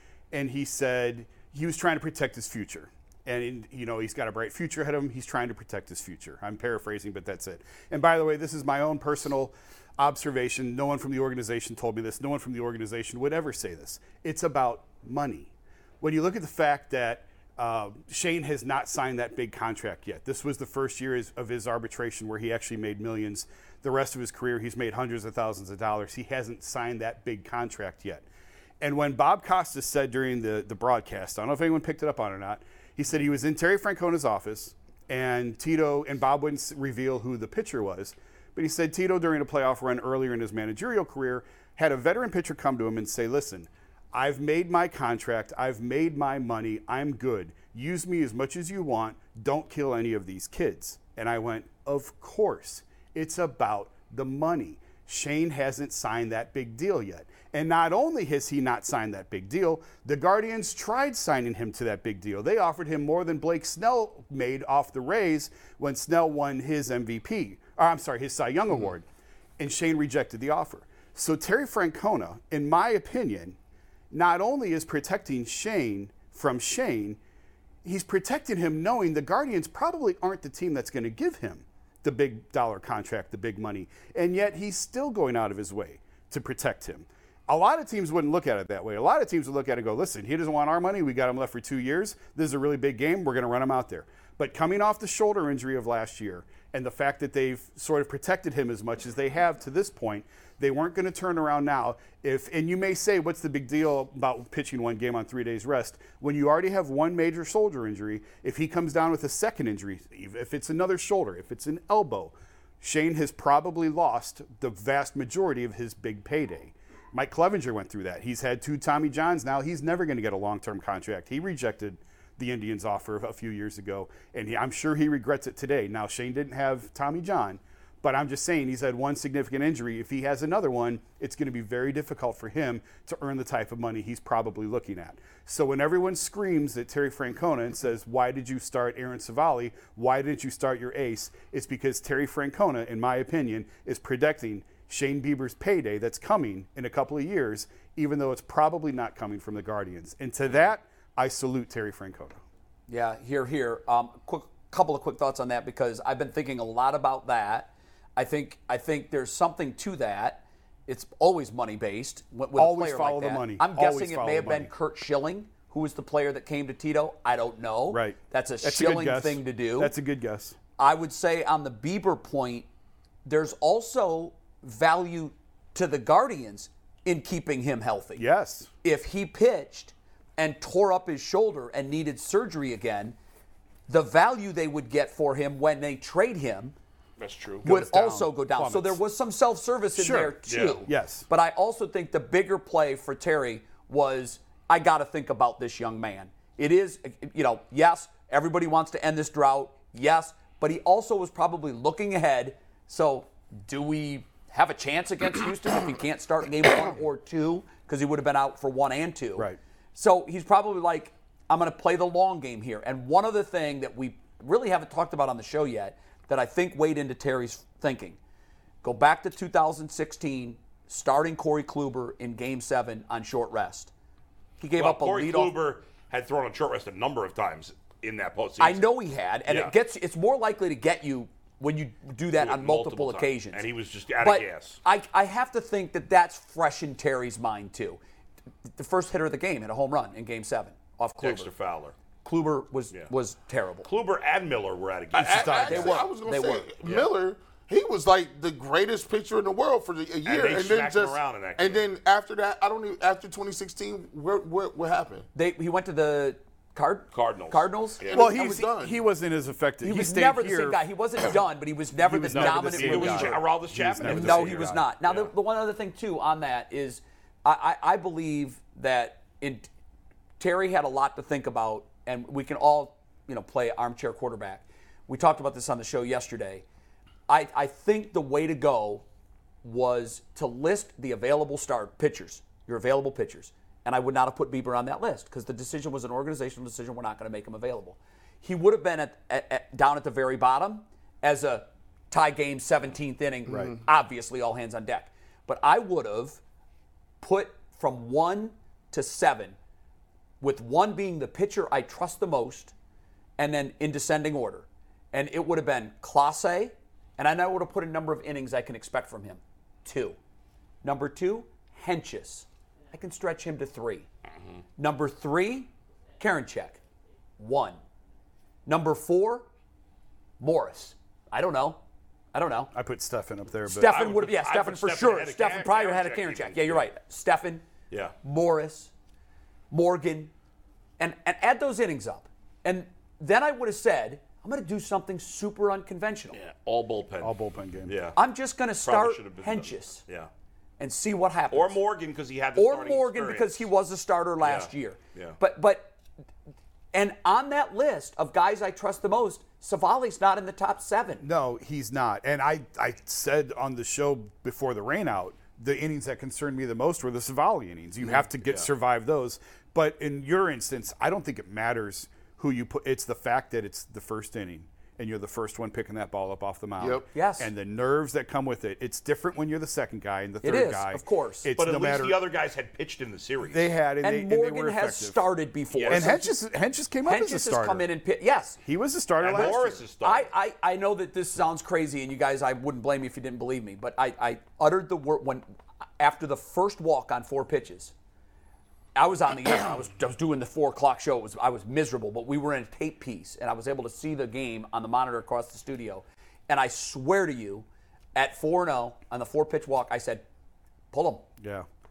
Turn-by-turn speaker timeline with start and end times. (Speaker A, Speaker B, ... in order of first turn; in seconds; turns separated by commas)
Speaker A: 0.3-28.2, Speaker A: 28.8-69.0, Speaker A: 69.6-73.5, Speaker A: 74.1-77.2, Speaker A: 77.8-152.4, Speaker B: 152.9-169.9, Speaker A: 162.6-164.7, Speaker A: 167.9-170.6, Speaker B: 170.8-172.7, Speaker B: 173.2-178.2, Speaker A: 178.2-178.7, Speaker B: 178.8-183.2, Speaker B: 183.9-186.8, Speaker C: 187.2-187.7, Speaker A: 187.6-189.0, Speaker B: 187.6-218.2, Speaker A: 190.0-191.2, Speaker C: 190.5-190.8, Speaker B: 218.8-223.9, Speaker B: 224.6-225.5, Speaker C: 224.8-228.8, Speaker B: 228.6-233.6, Speaker C: 229.4-229.7, Speaker C: 232.4-234.8, Speaker B: 234.2-238.0, Speaker B: 238.7-241.5, Speaker C: 241.2-241.9, Speaker B: 242.2-243.9, Speaker C: 243.8-246.0, Speaker D: 245.1-255.3, Speaker A: 245.2-245.9, Speaker B: 245.6-246.7, Speaker C: 246.8-247.1, Speaker C: 250.2-251.8, Speaker B: 255.3-258.7, Speaker C: 257.1-258.2, Speaker D: 258.1-259.0, Speaker A: 258.1-260.8, Speaker B: 259.8-263.4, Speaker A: 262.0-264.8, Speaker C: 262.3-265.3, Speaker B: 264.0-269.7, Speaker B: 270.4-276.6, Speaker B: 277.3-279.0, Speaker B: 279.6-296.4, Speaker A: 293.5-293.7, Speaker B: 297.2-299.6, Speaker B: 300.4-302.7, Speaker B: 303.4-310.2, Speaker B: 310.8-314.1, Speaker B: 314.8-316.8, Speaker B: 317.4-317.8, Speaker B: 318.6-319.5, Speaker B: 320.4-321.8, Speaker B: 322.3-322.7, Speaker A: 322.7-324.0, Speaker B: 323.6-327.6, Speaker C: 323.8-326.8, Speaker B: 328.2-328.9, Speaker B: 329.7-330.3, Speaker B: 331.0-336.4, Speaker C: 336.3-338.2, Speaker A: 337.2-337.9, Speaker B: 338.1-340.0, Speaker C: 338.8-340.3, Speaker B: 340.8-341.8, Speaker C: 341.5-343.6, Speaker B: 342.6-345.9, Speaker C: 344.4-345.4, Speaker B: 346.9-351.2, Speaker A: 351.2-372.1, Speaker B: 367.1-367.5, Speaker B: 370.4-371.5, Speaker C: 371.6-373.7, Speaker A: 373.4-375.2, Speaker B: 374.0-376.3, Speaker C: 375.7-376.1, Speaker A: 375.9-377.9, Speaker B: 377.0-378.6, Speaker A: 378.6-379.8, Speaker C: 379.2-380.3, Speaker B: 379.4-385.4, Speaker B: 386.0-387.9, Speaker B: 388.9-400.2, Speaker B: 400.9-401.3, Speaker A: 401.4-401.7